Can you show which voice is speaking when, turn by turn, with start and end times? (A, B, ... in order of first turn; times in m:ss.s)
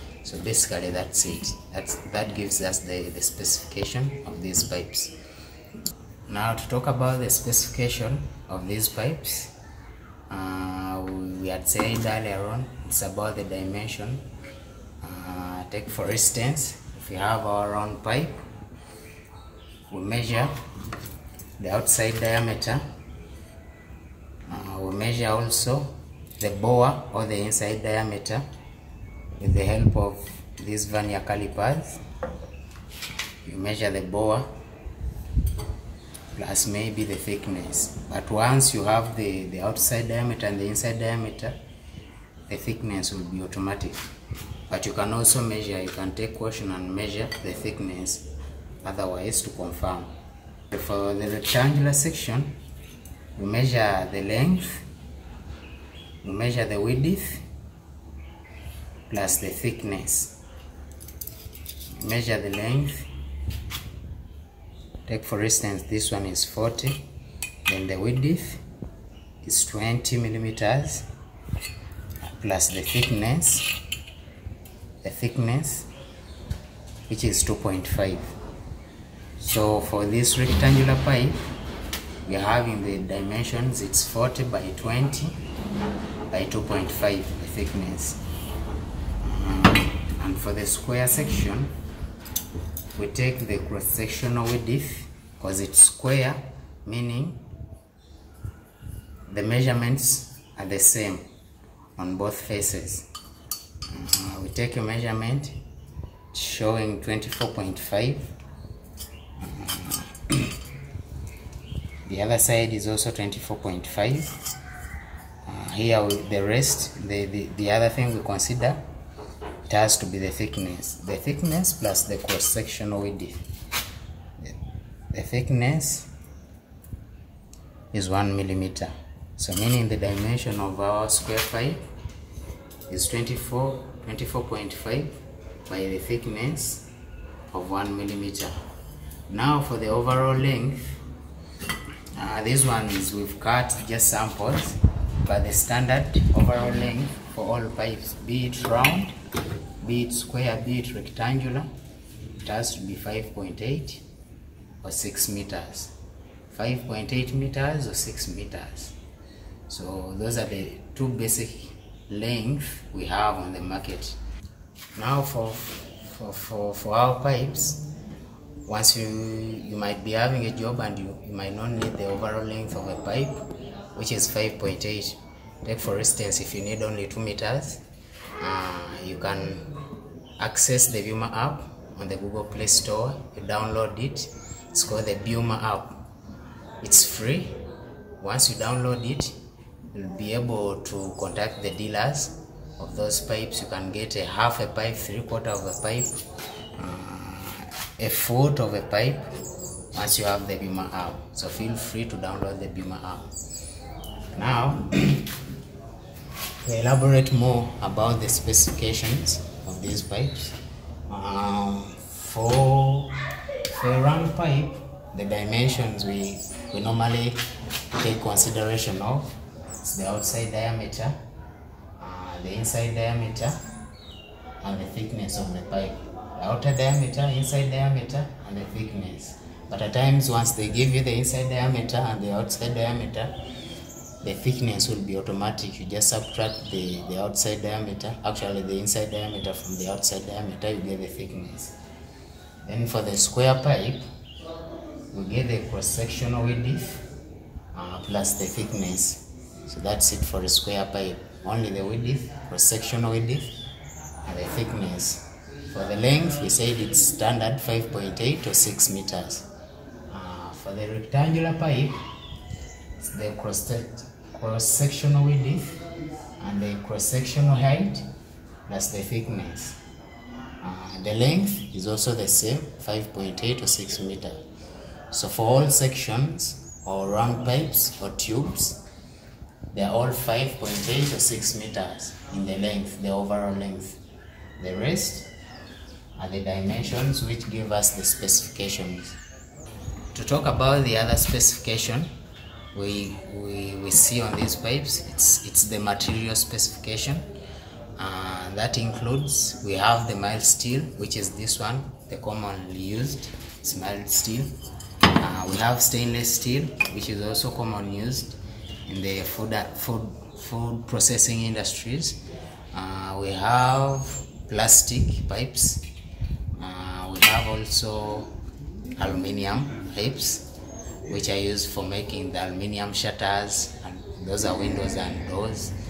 0:00.2-0:05.2 A
0:06.3-0:09.5 A
0:10.3-0:14.2 A
0:15.0-0:18.4 A
0:19.9-0:20.6 A
0:21.6-0:22.8 A
0:24.5-0:28.4 A
0:29.4-0:32.0 A
0:33.4-0:34.5 A
0:36.3-0:41.6 A
0:42.5-0:44.1 A
0:44.7-0:48.3 A
0:48.8-0:50.1 A
0:50.7-0:52.6 A
0:53.4-0:54.8 A
0:56.2-0:57.4 A
0:59.1-1:00.4 A
1:02.0-1:03.1 A
1:05.1-1:07.0 A
1:07.7-1:08.6 A
1:09.4-1:11.1 A
1:12.2-1:13.7 A
1:15.0-1:15.9 A
1:17.1-1:18.3 A
1:19.4-1:21.5 A
1:22.2-1:25.3 A
1:26.3-1:28.2 A
1:29.2-1:31.7 A
1:33.0-1:37.4 A
1:39.3-1:41.2 A
1:42.0-1:43.1 A
1:43.9-1:45.6 A
1:46.3-1:48.3 A
1:49.4-1:50.6 A
1:52.0-1:54.4 A
1:55.4-1:58.8 A
1:59.7-2:03.4 A
2:05.1-2:06.1 A
2:07.9-2:11.8 A
2:12.9-2:16.9 A
2:17.5-2:18.5 A
2:19.3-2:21.0 A
2:22.1-2:29.2 A
2:29.8-2:31.7 A
2:32.4-2:34.0 A
2:34.8-2:35.9 A
2:36.5-2:39.0 A
2:39.7-2:44.2 A
2:45.0-2:47.8 A
2:48.6-2:57.8 A
2:58.4-2:59.7 A
3:00.4-3:06.0 A
3:06.8-3:07.6 A
3:08.2-3:09.4 A
3:09.9-3:16.2 A
3:16.8-3:19.3 A
3:19.9-3:23.3 A
3:24.3-3:25.4 A
3:26.6-3:30.6 A
3:31.1-3:37.4 A
3:38.0-3:41.2 A
3:42.0-3:43.6 A
3:44.6-3:53.4 A
3:54.2-4:01.8 A
4:02.6-4:04.1 A
4:05.1-4:07.1 A
4:07.7-4:13.6 A
4:14.2-4:19.5 A
4:20.1-4:22.0 A
4:23.0-4:25.9 A
4:26.4-4:28.1 A
4:28.7-4:29.8 A
4:30.6-4:34.4 A
4:35.1-4:38.8 A
4:39.7-4:44.0 A
4:44.6-4:45.3 A
4:46.2-4:49.2 A
4:50.1-4:52.1 A
4:52.7-4:57.3 A
4:58.0-5:04.5 A
5:05.2-5:12.2 A
5:12.7-5:15.8 A
5:16.6-5:18.4 A
5:19.0-5:20.5 A
5:21.1-5:25.8 A